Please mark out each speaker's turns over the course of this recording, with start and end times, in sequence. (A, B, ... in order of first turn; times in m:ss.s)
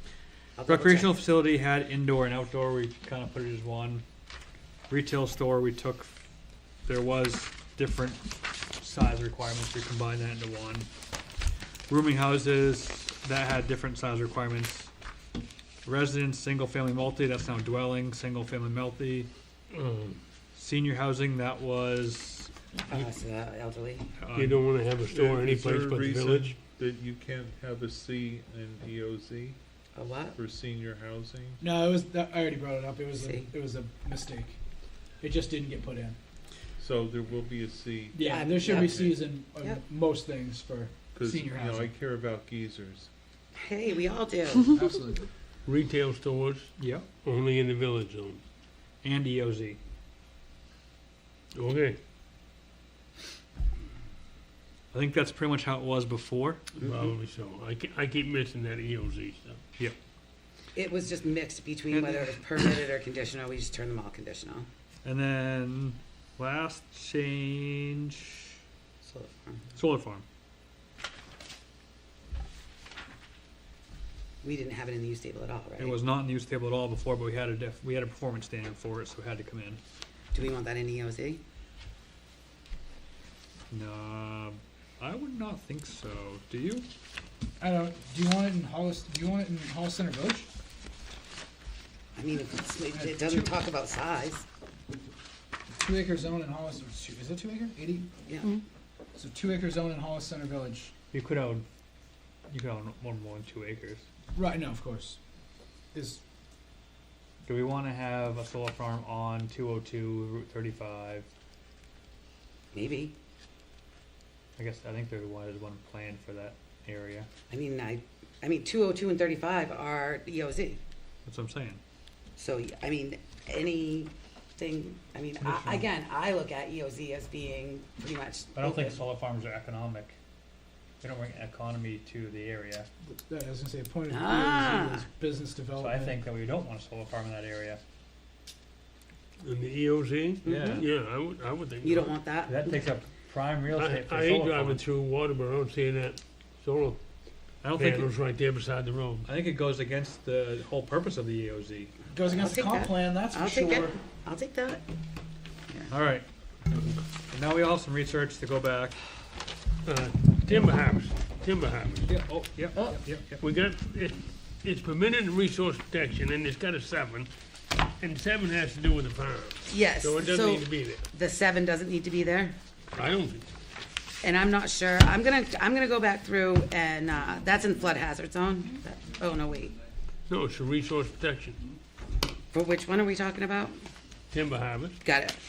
0:00.6-0:01.2 A
0:00.7-0:04.0 B
0:04.9-0:06.2 B
0:06.9-0:10.9 B
0:11.9-0:14.9 B
0:15.8-0:19.3 B
0:19.7-0:20.2 C
0:20.6-0:23.0 B
0:22.9-0:24.1 A
0:24.2-0:24.6 B
0:24.4-0:26.6 C
0:25.1-0:29.6 D
0:30.0-0:30.4 A
0:30.4-0:31.6 D
0:31.6-0:34.6 E
0:33.1-0:33.5 A
0:35.2-0:36.2 E
0:36.8-0:39.2 D
0:38.1-0:41.9 E
0:38.2-0:39.8 A
0:41.1-0:43.1 D
0:43.6-0:44.8 A
0:44.8-0:45.3 E
0:45.7-0:46.7 C
0:46.8-0:47.1 B
0:47.2-0:48.4 C
0:49.0-0:49.8 B
0:51.5-0:52.0 C
0:54.9-0:56.6 B
0:56.8-0:59.6 C
1:00.8-1:04.7 A
1:01.9-1:02.4 B
1:05.0-1:08.5 B
1:09.0-1:09.7 A
1:09.8-1:10.2 B
1:14.4-1:16.0 A
1:15.8-1:19.8 B
1:20.3-1:21.4 A
1:23.7-1:26.9 B
1:27.6-1:30.5 E
1:32.2-1:34.5 A
1:32.9-1:33.5 E
1:35.7-1:38.1 E
1:38.3-1:38.6 A
1:39.1-1:40.9 E
1:41.1-1:41.7 B
1:42.5-1:44.0 B
1:44.3-1:45.2 E
1:45.9-1:46.2 E
1:47.5-1:51.3 B
1:52.7-1:53.1 A
1:54.6-1:57.3 B
1:57.5-2:00.8 A
2:01.3-2:01.8 B
2:02.4-2:09.0 A
2:05.4-2:05.9 B
2:08.6-2:10.2 B
2:11.0-2:12.9 B
2:13.0-2:16.2 E
2:14.1-2:15.1 A
2:15.8-2:17.8 B
2:19.4-2:22.1 C
2:20.4-2:20.9 A
2:20.4-2:20.9 B
2:21.8-2:22.9 A
2:22.5-2:24.8 B
2:23.7-2:27.0 C
2:27.6-2:28.1 B
2:27.8-2:29.3 C
2:29.2-2:31.9 B
2:32.1-2:34.0 E
2:32.3-2:34.8 A
2:35.9-2:36.2 B
2:37.2-2:39.0 B
2:39.8-2:42.1 C
2:42.1-2:43.4 B
2:42.8-2:43.0 A
2:43.4-2:47.3 C
2:48.0-2:51.0 C
2:49.7-2:52.6 A
2:52.9-2:53.5 C
2:54.2-2:59.8 A
3:00.3-3:01.6 C
3:02.5-3:03.8 A
3:04.3-3:05.0 C
3:05.0-3:05.4 A